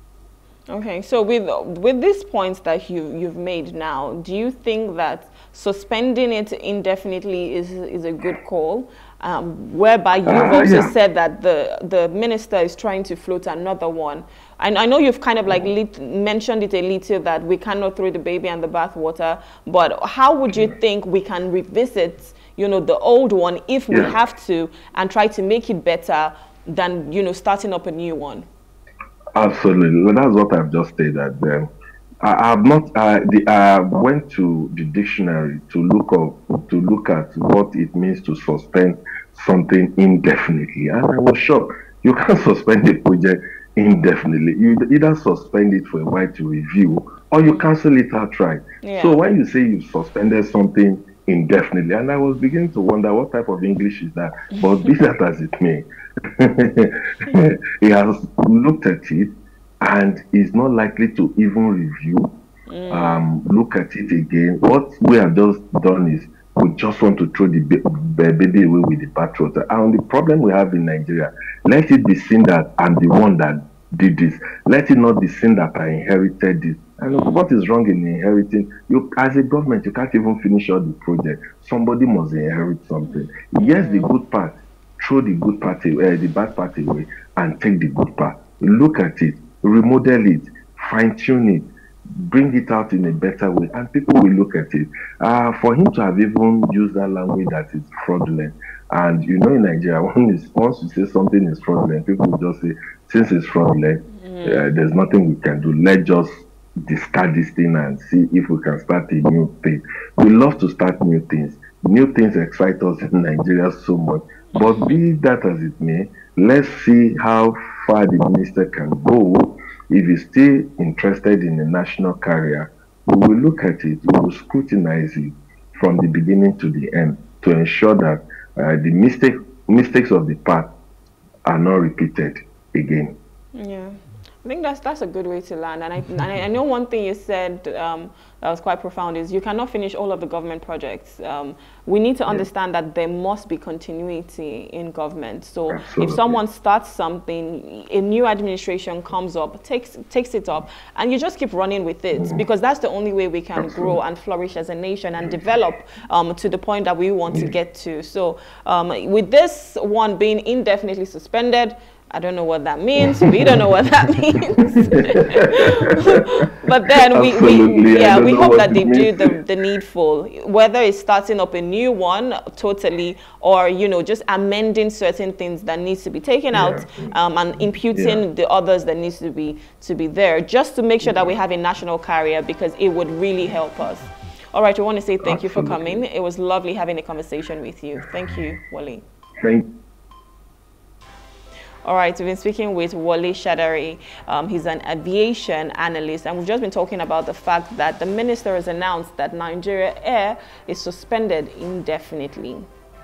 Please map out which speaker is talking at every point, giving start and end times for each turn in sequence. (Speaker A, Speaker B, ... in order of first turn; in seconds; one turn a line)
Speaker A: 0.7-28.5
Speaker B: 10.3-10.9
Speaker B: 20.5-20.8
Speaker B: 23.9-24.2
Speaker B: 29.4-31.7
Speaker B: 32.2-55.9
Speaker A: 48.8-49.2
Speaker A: 54.6-54.9
Speaker B: 56.4-62.3
Speaker A: 62.7-63.3
Speaker B: 62.9-91.7
Speaker A: 77.1-77.4
Speaker A: 83.6-84.1
Speaker B: 92.2-106.3
Speaker A: 104.2-104.7
Speaker B: 106.8-130.7
Speaker A: 114.6-115.0
Speaker B: 131.5-133.2
Speaker A: 133.6-189.0
Speaker B: 145.7-146.4
Speaker B: 152.2-152.4
Speaker B: 153.6-154.0
Speaker B: 157.3-157.6
Speaker B: 163.0-163.6
Speaker B: 164.7-165.9
Speaker B: 167.1-169.4
Speaker B: 176.5-178.2
Speaker B: 181.0-181.4
Speaker B: 185.2-186.0
Speaker A: 191.8-202.7